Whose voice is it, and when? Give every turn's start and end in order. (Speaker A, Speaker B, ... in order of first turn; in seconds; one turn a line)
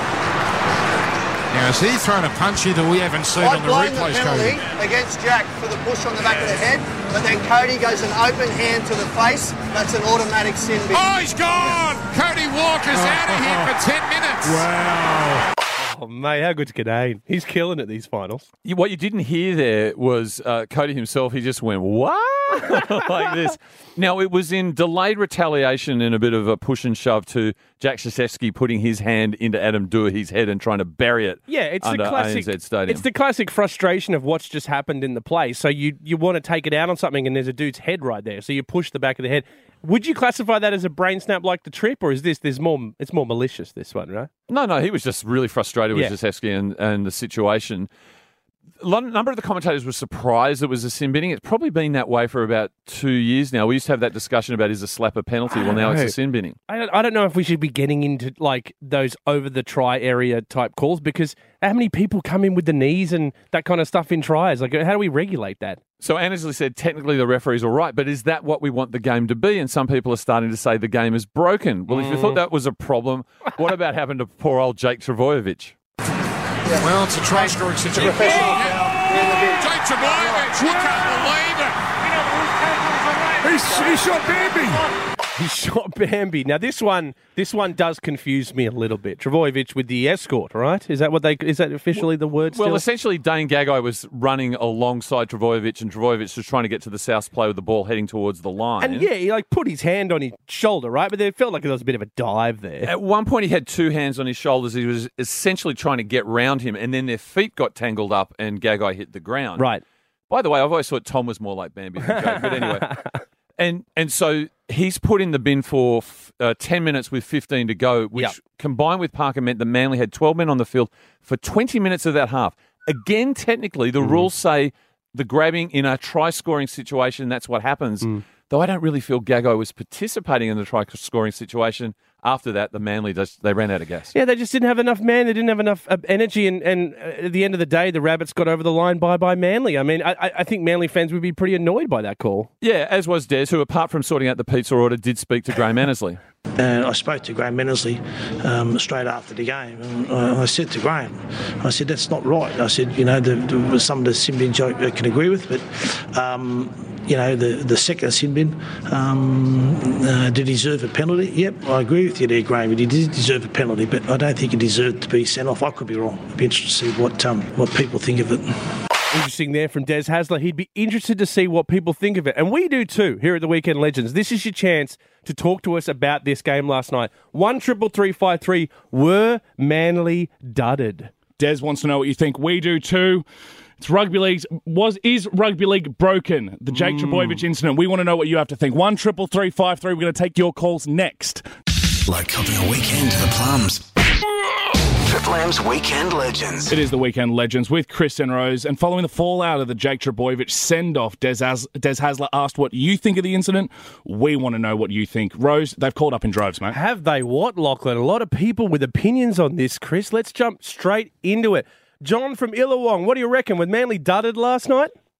Speaker A: 1.5-4.6
Speaker B: 3.4-11.1
Speaker A: 10.9-15.4
Speaker C: 15.8-18.4
Speaker D: 18.6-33.0
Speaker C: 31.5-44.3
Speaker D: 44.5-47.9
Speaker D: 48.8-56.6
Speaker C: 55.5-56.1
Speaker C: 56.7-65.8
Speaker D: 66.0-75.7
Speaker C: 71.9-72.4
Speaker B: 76.7-79.7
Speaker A: 76.8-84.9
Speaker C: 85.3-92.8
Speaker D: 91.9-99.1
Speaker C: 98.8-102.9
Speaker D: 102.8-109.7
Speaker C: 109.6-109.8
Speaker D: 110.3-113.0
Speaker C: 112.4-113.2
Speaker D: 113.6-134.1
Speaker C: 124.0-124.3
Speaker C: 134.1-142.5
Speaker D: 142.6-146.2
Speaker E: 146.6-168.6
Speaker C: 169.1-181.1
Speaker F: 181.4-183.2
Speaker F: 183.8-191.4
Speaker C: 186.7-187.4
Speaker G: 192.1-193.9
Speaker G: 194.7-196.7
Speaker F: 196.7-206.8
Speaker C: 206.7-214.9